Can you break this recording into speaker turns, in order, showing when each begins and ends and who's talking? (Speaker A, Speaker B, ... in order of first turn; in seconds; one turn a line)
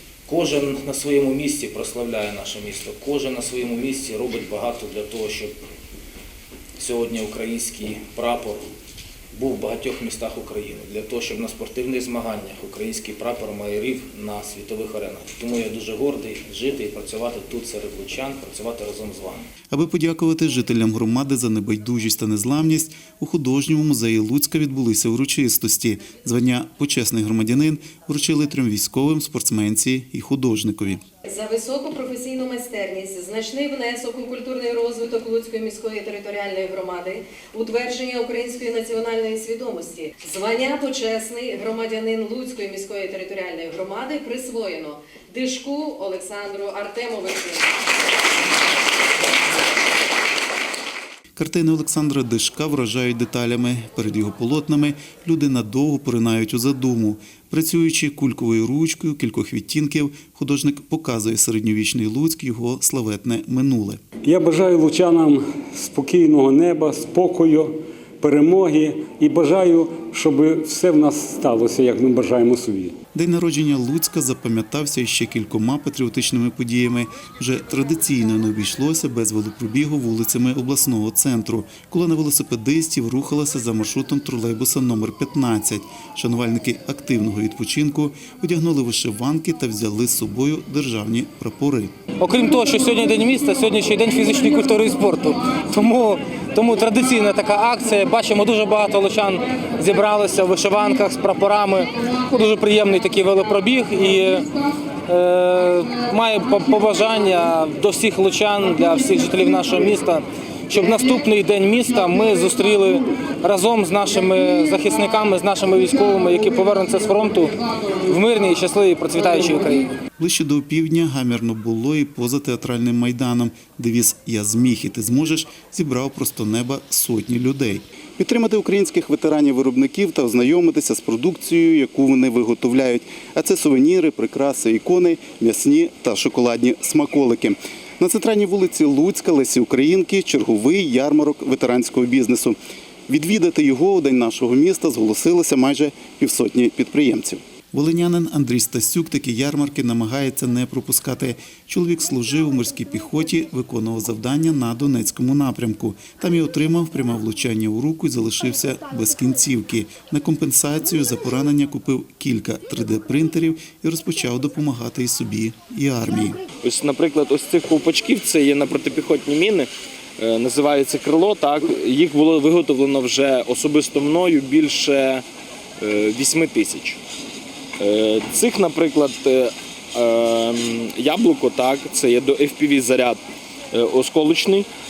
Speaker A: 0.3-5.5
Speaker A: 6.8-8.7
Speaker A: 9.3-19.5
Speaker B: 19.7-31.0
Speaker C: 31.3-47.7
Speaker B: 51.4-64.0
Speaker D: 64.2-72.9
Speaker B: 73.1-91.9
Speaker E: 92.2-104.5
Speaker E: 105.1-117.5
Speaker E: 118.1-119.9
Speaker B: 120.2-142.6
Speaker B: 143.1-166.4
Speaker F: 166.6-175.2
Speaker F: 175.8-177.0
Speaker F: 177.8-183.2
Speaker F: 183.7-184.7